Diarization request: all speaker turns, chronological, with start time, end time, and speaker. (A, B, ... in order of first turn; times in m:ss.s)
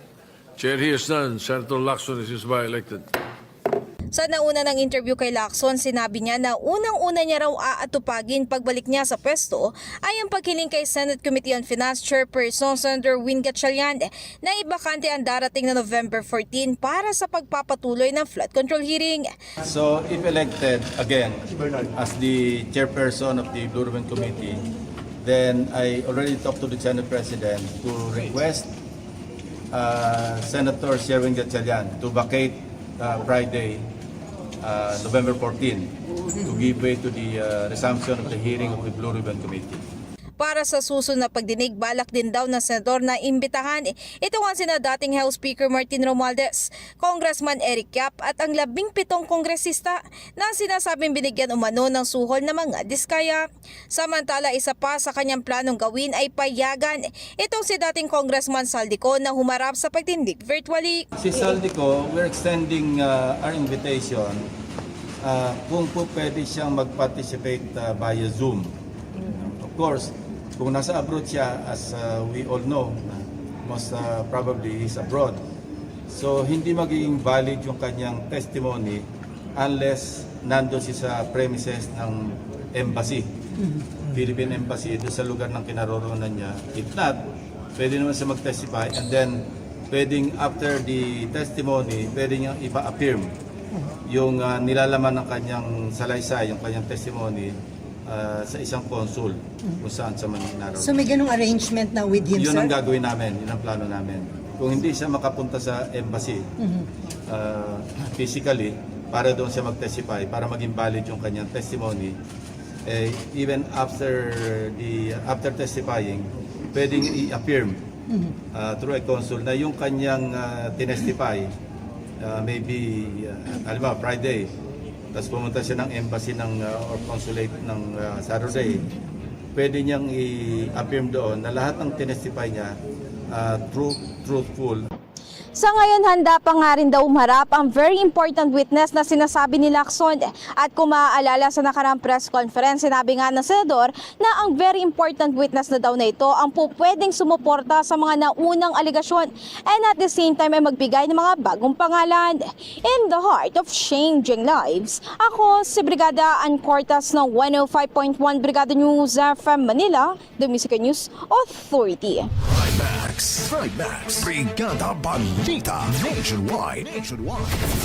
0:00.6-0:03.0 A
0:04.1-0:19.3 B
0:19.6-0:24.6 C
0:25.2-0:28.7 C
0:29.7-0:33.8 C
0:34.6-0:39.8 C
0:40.4-1:01.0 B
1:01.2-1:04.4 C
1:05.2-1:08.7 C
1:09.2-1:15.4 C
1:16.1-1:19.0 C
1:19.6-1:23.3 C
1:24.1-1:27.2 C
1:27.8-1:33.3 C
1:34.1-1:41.0 C
1:40.8-1:42.7 D
1:42.3-1:46.4 C
1:46.6-1:46.8 D
1:47.3-1:52.2 C
1:52.8-1:57.8 C
1:58.5-2:01.5 C
2:02.2-2:04.5 C
2:05.1-2:08.9 C
2:09.5-2:12.8 C
2:13.3-2:14.8 C
2:15.6-2:42.3 B
2:42.5-2:47.6 E